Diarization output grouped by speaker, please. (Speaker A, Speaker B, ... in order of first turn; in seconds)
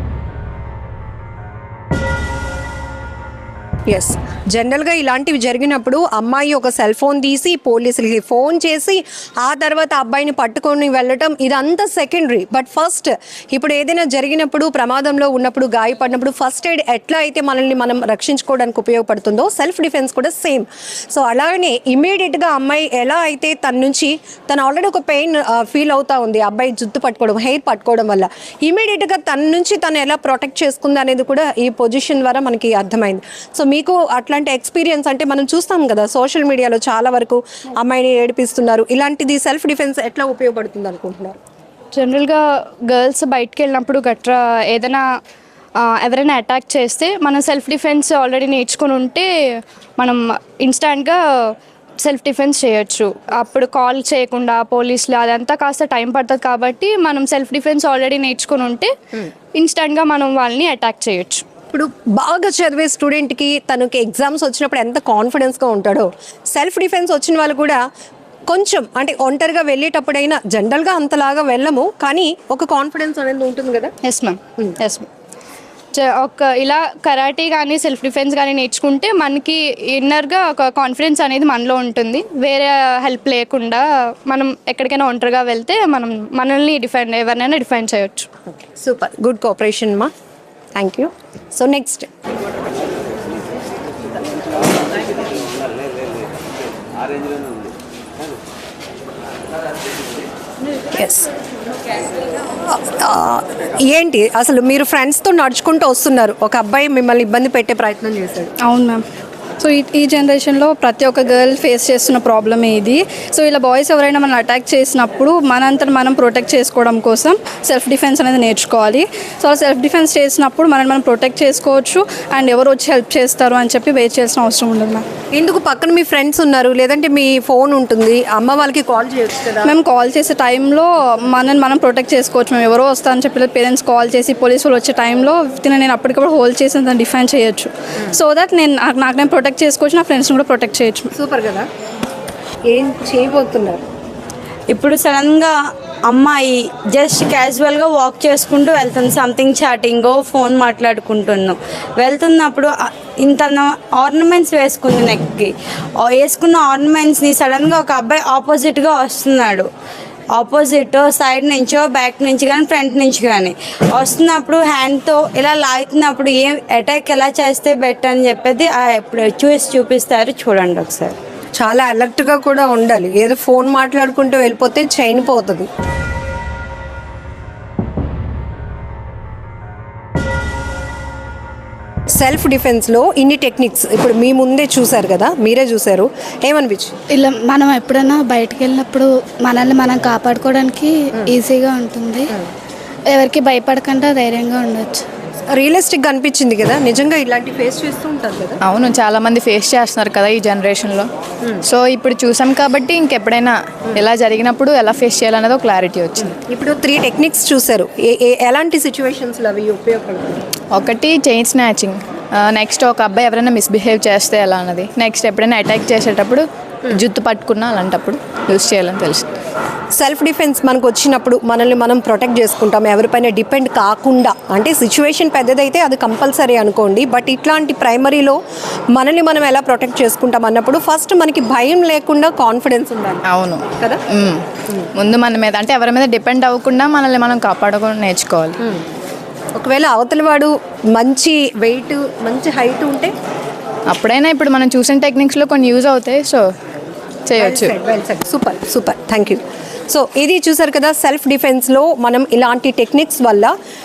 Speaker A: 3.9-41.4, 61.7-67.8, 68.5-73.9, 88.7-90.1, 90.8-92.1, 100.9-101.3, 102.6-108.5, 125.3-129.8, 141.2-141.7, 142.7-143.8, 171.6-175.7, 182.2-187.0, 195.5-198.6, 206.2-210.4, 220.0-228.4, 229.0-233.2, 238.6-238.9, 239.6-243.1, 247.4-253.5
Speaker B: 42.0-45.0, 45.8-49.3, 50.0-51.2, 52.0-58.9, 59.6-61.4, 74.0-75.1, 75.9-88.3
Speaker C: 108.6-109.0, 109.6-125.0, 129.7-141.1
Speaker D: 144.7-145.5, 146.1-155.5, 156.0-159.7, 160.4-171.2
Speaker E: 187.1-192.3, 193.1-195.0
Speaker F: 198.7-201.1, 201.7-206.3, 210.7-212.0, 212.5-219.3, 233.3-234.4, 235.0-238.6, 243.9-246.5, 247.3-247.7